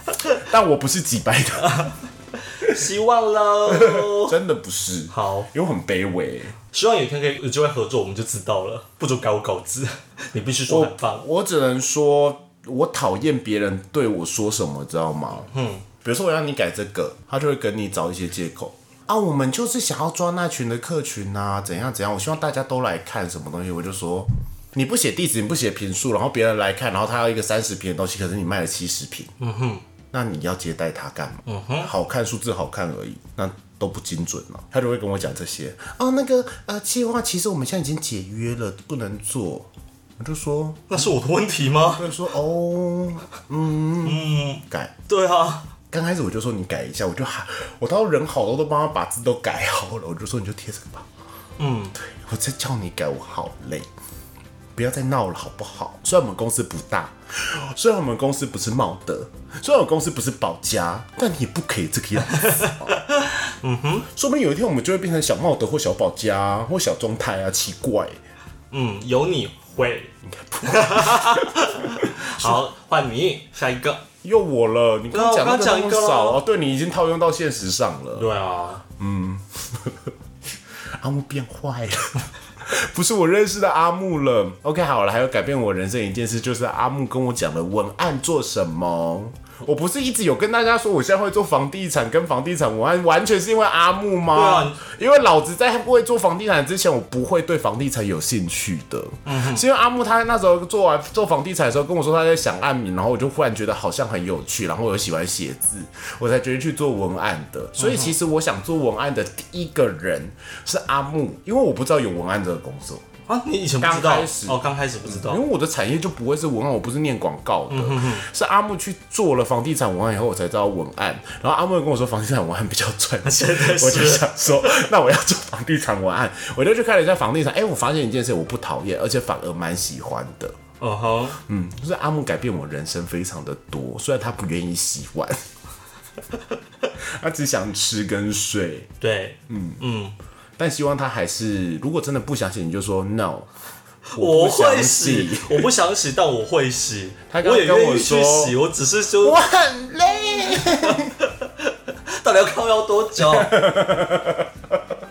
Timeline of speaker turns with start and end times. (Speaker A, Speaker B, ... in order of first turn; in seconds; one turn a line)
Speaker A: 0.3-1.9
Speaker B: 1.6-4.4
Speaker A: 3.7-6.5
Speaker B: 5.1-5.5
Speaker B: 6.7-11.2
Speaker A: 10.7-15.5
Speaker B: 15.5-15.8
Speaker A: 16.0-29.3
Speaker B: 29.4-29.8
Speaker A: 30.1-41.1
Speaker B: 31.4-31.9
Speaker B: 40.9-42.1
Speaker A: 42.0-44.9
Speaker B: 44.0-45.7
Speaker A: 45.9-51.1
Speaker B: 51.6-52.0
Speaker A: 52.0-53.9
Speaker A: 54.8-63.0
Speaker B: 62.3-64.1
Speaker A: 64.0-68.2
Speaker B: 68.7-74.0
Speaker A: 70.3-72.6
Speaker A: 74.2-78.3
Speaker B: 75.1-76.4
Speaker B: 78.1-78.8
Speaker A: 79.0-80.1
Speaker A: 81.0-113.0
Speaker B: 94.3-94.8
Speaker B: 99.2-99.6
Speaker B: 107.8-108.1
Speaker B: 113.3-115.4
Speaker A: 113.8-130.6
Speaker B: 117.7-118.2
Speaker B: 123.2-124.3
Speaker B: 130.8-131.4
Speaker A: 131.4-135.4
Speaker A: 137.0-138.9
Speaker B: 139.0-140.1
Speaker A: 139.5-139.8
Speaker A: 140.6-143.5
Speaker B: 144.1-149.4
Speaker A: 144.2-145.7
Speaker A: 147.3-148.6
Speaker A: 149.2-151.1
Speaker B: 150.6-153.5
Speaker A: 153.2-154.8